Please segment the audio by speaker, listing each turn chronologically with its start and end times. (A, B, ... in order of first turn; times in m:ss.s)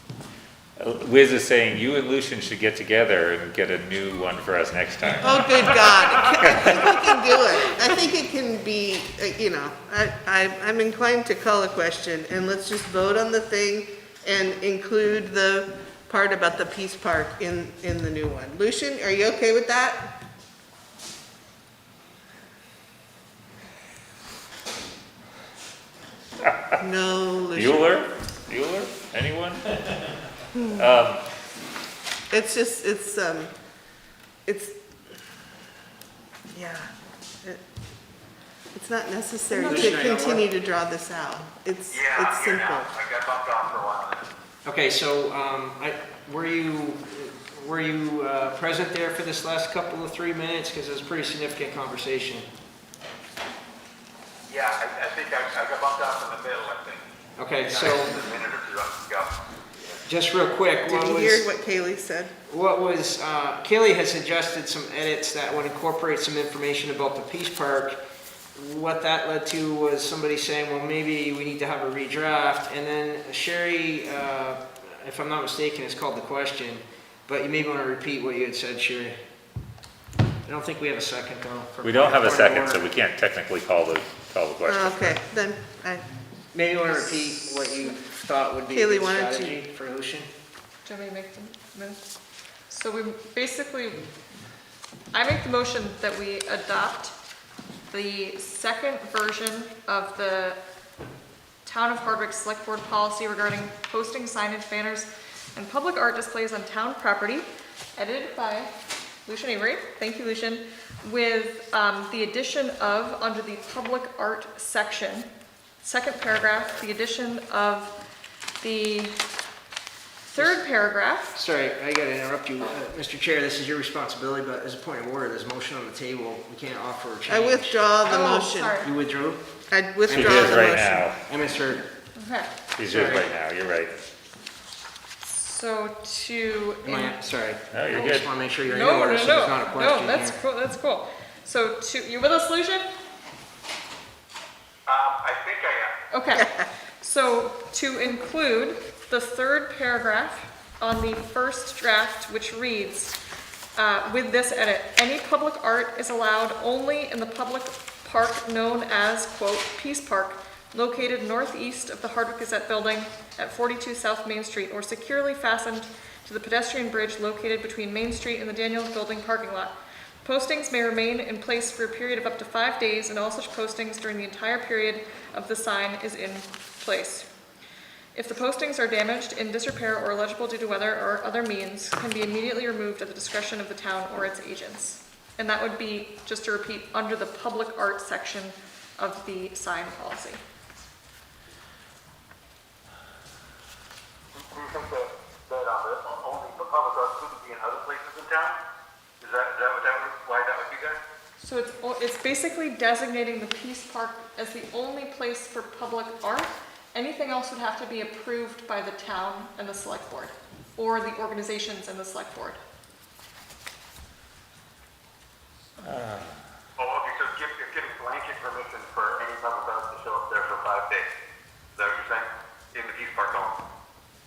0:00.8-0:07.3 A
0:05.2-0:20.1 B
0:26.4-0:26.8 A
0:26.8-0:27.9 B
0:27.6-0:31.2 A
0:32.3-0:33.5 B
0:34.5-0:34.8 B
0:36.5-0:36.9 B
0:38.7-0:42.9 B
0:39.5-0:40.5 C
0:41.9-0:44.3 D
0:44.6-0:52.5 C
0:54.5-0:57.0 D
0:57.4-0:58.2 C
0:57.6-0:59.3 D
1:00.1-1:01.5 C
1:00.8-1:02.3 B
1:02.5-1:08.0 C
1:08.6-1:19.2 C
1:20.5-1:22.9 C
1:21.8-1:25.2 A
1:24.7-1:26.0 B
1:26.5-1:30.3 C
1:28.7-1:29.6 B
1:30.8-1:32.0 E
1:32.7-1:34.1 E
1:35.1-1:37.1 E
1:37.9-1:40.6 E
1:41.6-1:48.7 E
1:49.3-1:55.3 E
1:55.8-1:57.9 E
1:58.6-1:59.2 E
2:00.3-2:01.4 E
2:00.3-2:00.6 C
2:01.4-2:09.4 C
2:07.3-2:08.8 B
2:08.1-2:08.9 E
2:09.7-2:11.1 B
2:10.1-2:11.9 C
2:10.1-2:11.2 A
2:12.2-2:12.5 E
2:12.8-2:14.0 A
2:12.8-2:13.3 C
2:15.2-2:17.2 E
2:16.8-2:20.4 C
2:17.7-2:18.3 A
2:17.9-2:22.8 E
2:24.9-2:25.9 D
2:26.1-2:26.5 E
2:26.3-2:26.7 B
2:27.0-2:33.1 E
2:33.8-2:57.3 E
2:58.1-3:10.4 E
3:14.4-3:18.6 D
3:19.2-3:21.0 D
3:21.4-3:32.6 E
3:35.8-3:36.4 A
3:36.8-3:41.1 D
3:41.8-3:43.6 D